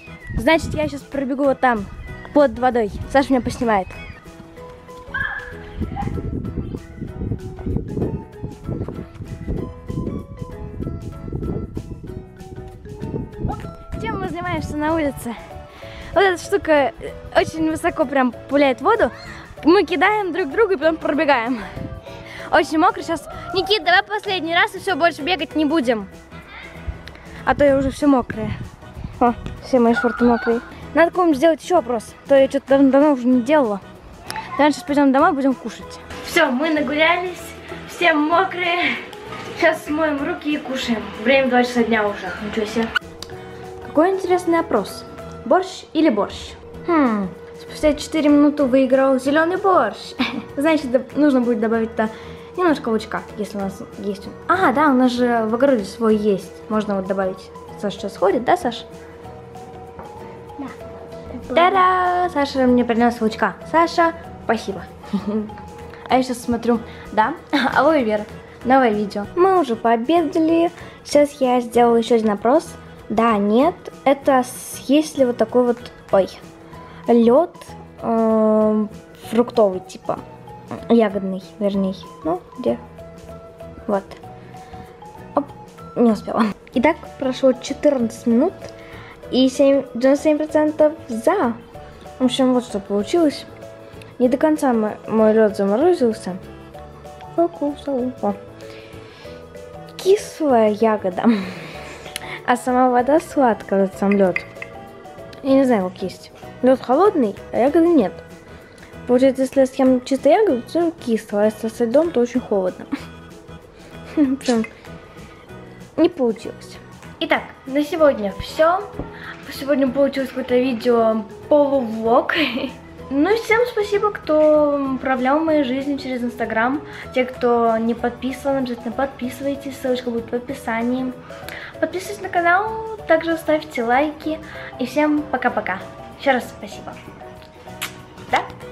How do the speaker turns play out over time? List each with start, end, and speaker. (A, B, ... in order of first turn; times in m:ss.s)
0:00.3-0:04.0 A
0:13.9-0:15.4 A
0:16.1-0:21.9 A
0:22.5-0:26.1 A
0:27.4-0:28.6 A
0:29.2-0:33.8 A
0:34.5-0:42.9 A
0:43.8-0:58.9 A
1:01.5-1:05.5 A
1:06.1-1:16.4 A
1:17.1-1:20.2 A
1:20.8-1:22.8 A
1:23.8-1:24.2 A
1:25.3-1:28.7 A
1:29.3-1:31.6 A
1:32.2-1:33.5 A
1:34.2-1:36.4 A
1:37.4-1:38.4 A
1:40.0-1:41.8 A
1:42.4-1:44.5 A
1:45.4-1:48.2 A
1:49.0-1:52.9 A
1:54.1-1:54.7 A
1:56.0-1:58.9 A
1:59.4-2:11.2 A
2:11.8-2:17.0 A